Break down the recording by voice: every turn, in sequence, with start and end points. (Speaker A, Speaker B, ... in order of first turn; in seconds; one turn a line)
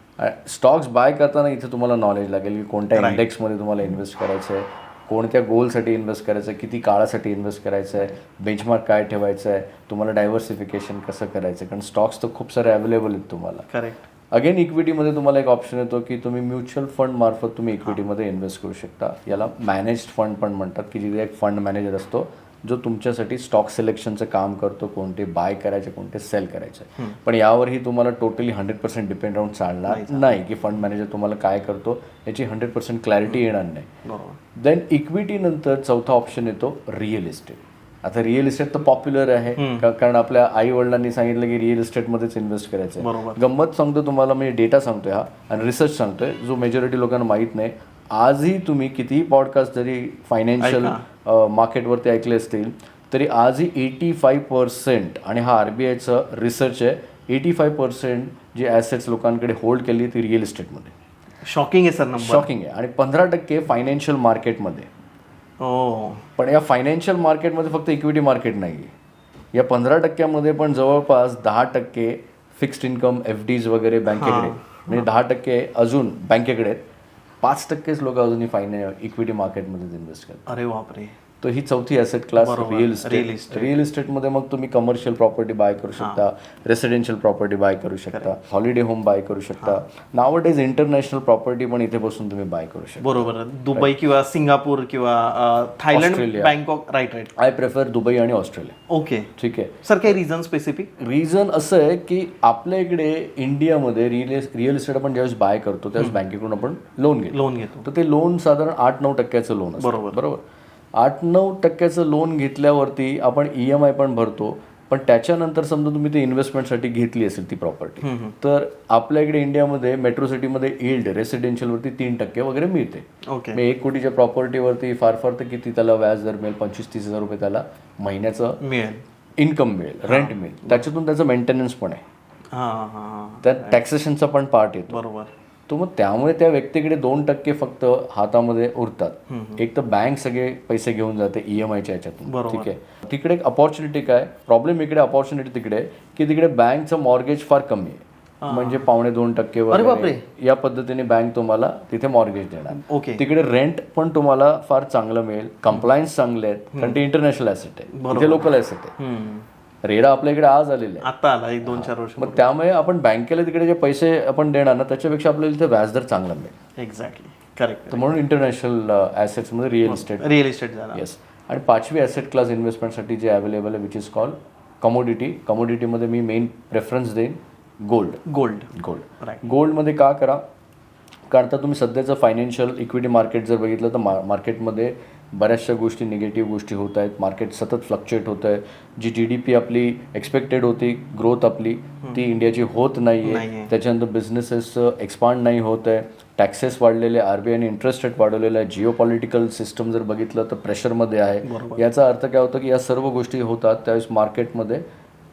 Speaker A: 0.2-13.7
Speaker B: 3.0-3.2
Speaker B: 13.7-14.0
Speaker A: 14.3-33.9
Speaker B: 29.9-30.4
Speaker B: 34.0-34.4
Speaker A: 34.6-60.9
Speaker B: 39.6-39.9
Speaker B: 43.0-43.4
Speaker B: 50.6-51.0
Speaker B: 61.5-62.5
Speaker A: 62.2-64.9
Speaker B: 65.6-66.2
Speaker A: 66.4-68.9
Speaker A: 69.5-76.8
Speaker B: 74.1-75.1
Speaker A: 77.4-80.5
Speaker B: 80.5-81.2
Speaker A: 81.4-94.0
Speaker B: 82.4-83.8
Speaker B: 93.0-97.3
Speaker A: 95.9-96.5
Speaker A: 97.4-98.8
Speaker B: 98.9-99.3
Speaker A: 99.4-100.2
Speaker B: 99.8-100.9
Speaker A: 101.0-110.4
Speaker B: 107.3-107.9
Speaker B: 109.8-110.2
Speaker A: 111.0-128.6
Speaker B: 118.0-118.3
Speaker B: 123.3-123.6
Speaker B: 128.6-129.0
Speaker A: 129.4-132.0
Speaker B: 130.1-130.9
Speaker B: 132.5-133.8
Speaker A: 133.4-135.0
Speaker B: 134.9-135.3
Speaker A: 135.7-158.9
Speaker B: 139.3-139.6
Speaker B: 142.3-142.7
Speaker B: 148.4-148.8
Speaker B: 149.7-150.2
Speaker B: 152.7-153.2
Speaker B: 156.7-157.0
Speaker B: 157.9-159.5
Speaker A: 159.8-161.1
Speaker B: 161.0-162.5
Speaker A: 161.7-166.5
Speaker B: 166.8-168.1
Speaker A: 167.9-170.3
Speaker B: 169.8-171.0
Speaker A: 170.9-180.4
Speaker B: 178.3-179.4
Speaker A: 181.3-204.8
Speaker B: 193.2-193.7
Speaker B: 201.4-201.8